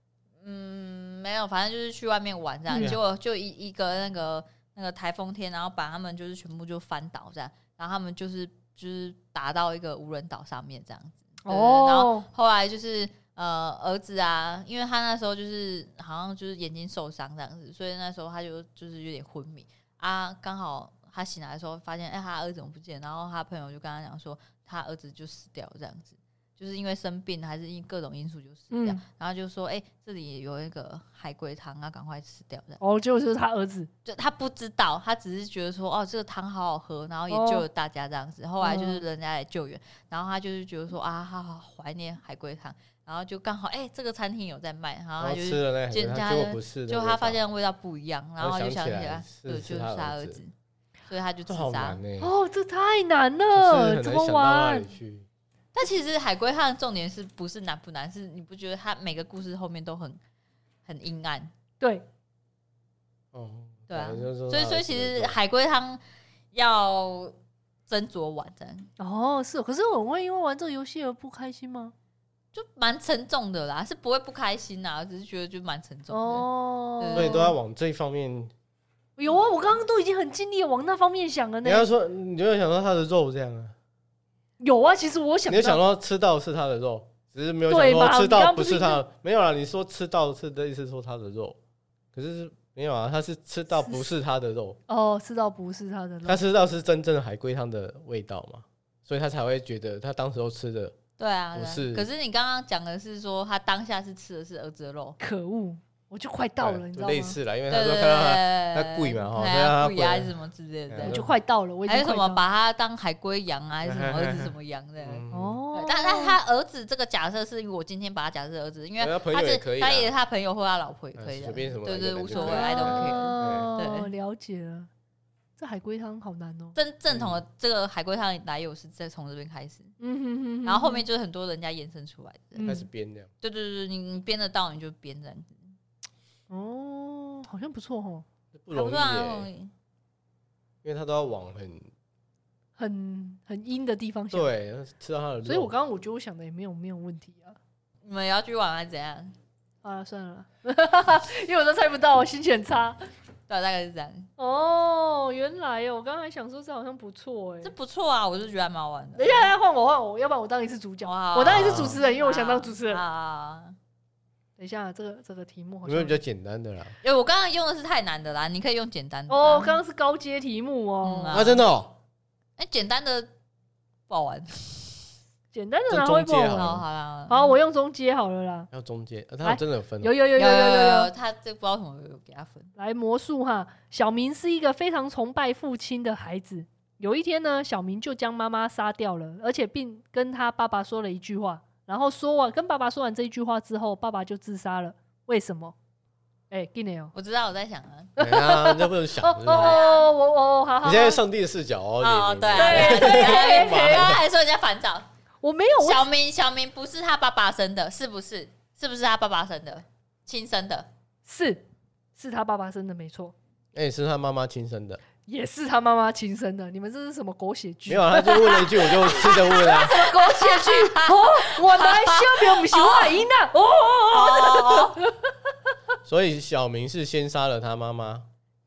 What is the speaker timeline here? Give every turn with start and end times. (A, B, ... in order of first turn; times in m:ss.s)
0:00.4-0:32.8 A
0:02.7-0:03.0 B
0:02.7-0:03.0 C
0:11.4-0:12.3 B
0:28.7-0:29.0 B
0:32.8-0:33.9 B
0:34.1-0:50.5 A
0:37.3-0:37.6 B
0:38.6-0:39.0 B
0:45.2-0:47.4 C
0:48.4-0:50.4 C
0:51.1-0:52.0 A
0:51.5-0:52.3 C
0:52.2-0:54.9 B
0:53.5-0:55.3 C
0:55.7-1:00.2 A
1:00.8-1:01.5 A
1:03.3-1:05.4 C
1:03.9-1:06.0 A
1:06.5-1:07.4 A
1:07.9-1:08.9 A
1:09.0-1:11.9 B
1:12.5-1:16.5 A
1:16.1-1:17.5 B
1:17.0-1:17.5 A
1:17.2-1:18.5 C
1:19.2-1:21.9 B
1:21.6-1:23.7 C
1:24.6-1:25.8 B
1:25.5-1:31.6 C
1:27.7-1:29.0 B
1:32.1-1:34.8 C
1:33.8-1:34.0 B
1:34.9-1:36.4 B
1:36.2-1:41.0 C
1:41.2-1:45.2 A
1:41.5-1:42.1 C
1:45.2-1:47.4 B
1:46.6-1:50.3 C
1:47.7-1:51.2 A
1:50.9-1:51.3 C
1:51.0-1:52.4 B
1:51.9-2:04.1 A
1:53.8-1:55.6 C
1:55.3-1:56.4 B
1:59.0-2:00.1 C
2:01.2-2:03.7 C
2:02.3-2:04.9 B
2:05.6-2:06.8 B
2:06.8-2:09.9 A
2:07.1-2:07.4 C
2:10.0-2:11.0 B
2:10.6-2:12.7 A
2:12.6-2:12.9 B
2:12.6-2:13.3 C
2:13.4-2:15.7 A
2:16.5-2:18.2 B
2:18.5-2:19.5 C
2:18.7-2:19.7 A
2:20.8-2:21.9 C
2:22.8-2:24.5 B
2:24.3-2:25.7 C
2:25.4-2:27.6 B
2:28.0-2:29.3 A
2:29.8-2:33.0 B
2:33.5-2:34.3 A
2:34.4-2:37.7 B
2:37.6-2:39.5 A
2:39.2-2:43.0 B
2:41.0-2:43.8 A
2:41.4-2:42.0 C
2:44.6-2:46.2 B
2:45.8-2:47.0 C
2:47.0-2:49.8 A
2:49.3-2:51.5 B
2:51.0-2:51.6 A
2:51.3-2:52.0 C
2:52.6-2:53.3 A
2:54.1-2:55.1 A
2:55.5-2:56.7 B
2:55.9-2:56.8 C
2:56.5-2:57.6 A
2:57.3-2:58.7 B
2:58.7-3:00.1 C
2:59.4-3:01.1 B
3:00.4-3:02.7 A
3:02.8-3:15.8 B
3:16.5-3:17.1 B
3:17.2-3:18.1 A
3:18.2-3:21.2 B
3:18.2-3:19.8 C
3:19.5-3:20.1 A
3:20.8-3:24.2 C
3:22.0-3:25.1 A
3:22.6-3:24.2 B
3:25.4-3:26.0 B
3:25.8-3:30.9 A
3:31.3-3:31.6 B
3:32.2-3:33.4 B
3:33.7-3:35.0 C
3:35.3-3:45.3 B
3:37.9-3:40.0 C
3:39.1-3:43.2 A
3:44.1-3:45.0 A
3:46.0-3:48.3 C